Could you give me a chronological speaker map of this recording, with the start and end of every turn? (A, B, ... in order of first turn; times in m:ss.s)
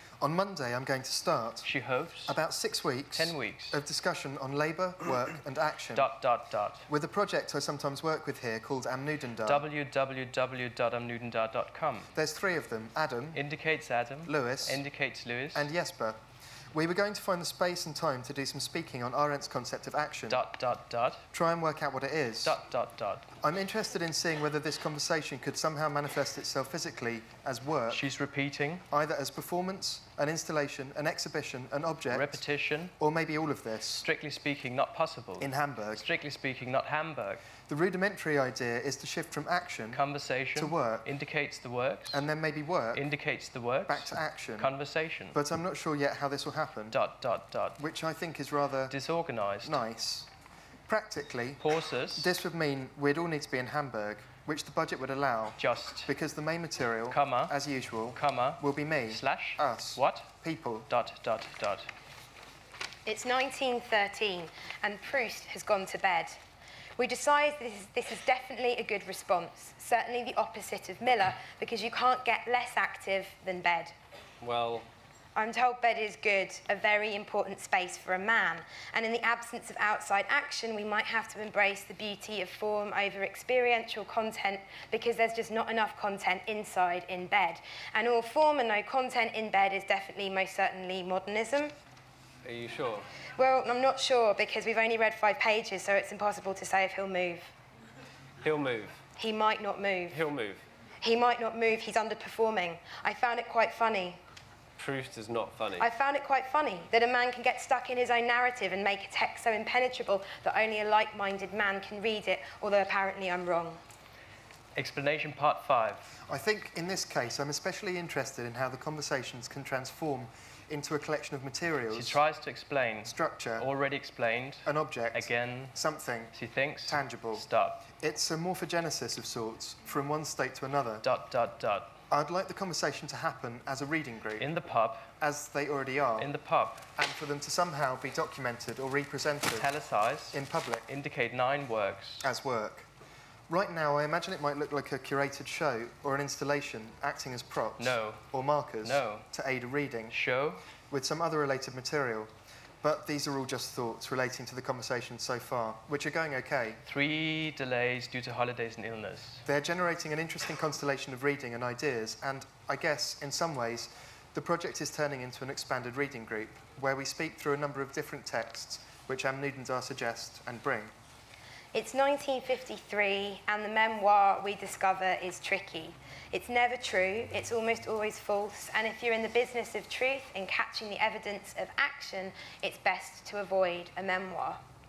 0:00.2-0:01.7 A
0:01.6-0:02.4 B
0:02.3-0:06.1 A
0:03.1-0:03.8 B
0:05.9-0:06.9 B
0:06.9-0:09.6 A
0:09.5-0:12.1 B
0:12.1-0:13.5 A
0:13.3-0:15.7 B
0:14.2-0:14.8 A
0:15.5-0:16.2 A
0:16.7-0:20.5 A
0:20.3-0:21.2 B
0:21.3-0:22.6 A
0:22.4-0:23.3 B
0:23.4-0:28.0 A
0:27.9-0:28.8 B
0:28.9-0:32.4 A
0:32.1-0:32.9 B
0:33.0-0:34.0 A
0:34.0-0:37.4 B
0:35.4-0:36.1 A
0:37.6-0:40.0 A
0:39.9-0:42.2 B
0:40.6-0:41.1 A
0:42.1-0:43.1 A
0:42.9-0:45.4 B
0:43.9-0:44.7 A
0:45.3-0:47.0 A
0:46.9-0:47.8 B
0:47.8-0:49.0 A
0:48.9-0:49.8 B
0:49.6-0:50.3 A
0:50.9-0:51.6 A
0:51.6-0:52.3 B
0:52.2-1:00.9 A
0:55.6-0:56.1 B
0:57.1-0:57.5 B
0:58.1-1:00.3 B
1:00.9-1:01.9 B
1:03.1-1:06.4 C
1:07.0-1:13.9 C
1:14.4-1:14.9 D
1:15.4-1:31.8 C
1:32.4-1:33.1 D
1:33.4-1:37.5 C
1:38.4-1:39.0 D
1:39.2-1:40.2 C
1:40.1-1:40.6 D
1:41.0-1:44.2 C
1:44.8-1:45.9 D
1:45.8-1:53.8 C
1:54.8-1:56.1 B
1:56.3-2:02.2 A
2:01.9-2:05.8 B
2:03.0-2:03.7 A
2:04.6-2:07.5 A
2:06.3-2:07.8 B
2:08.0-2:11.0 A
2:11.0-2:11.9 B
2:12.1-2:14.5 A
2:14.4-2:15.1 B
2:15.2-2:16.3 A
2:16.2-2:16.9 B
2:17.0-2:19.7 A
2:19.6-2:22.3 B
2:20.3-2:20.9 A
2:22.2-2:22.9 A
2:23.5-2:30.2 A
2:27.8-2:28.2 B
2:28.8-2:29.3 B
2:30.1-2:30.6 B
2:30.9-2:32.3 A
2:32.8-2:36.8 A
2:36.8-2:39.4 B
2:39.4-2:50.9 A
2:51.7-3:04.6 C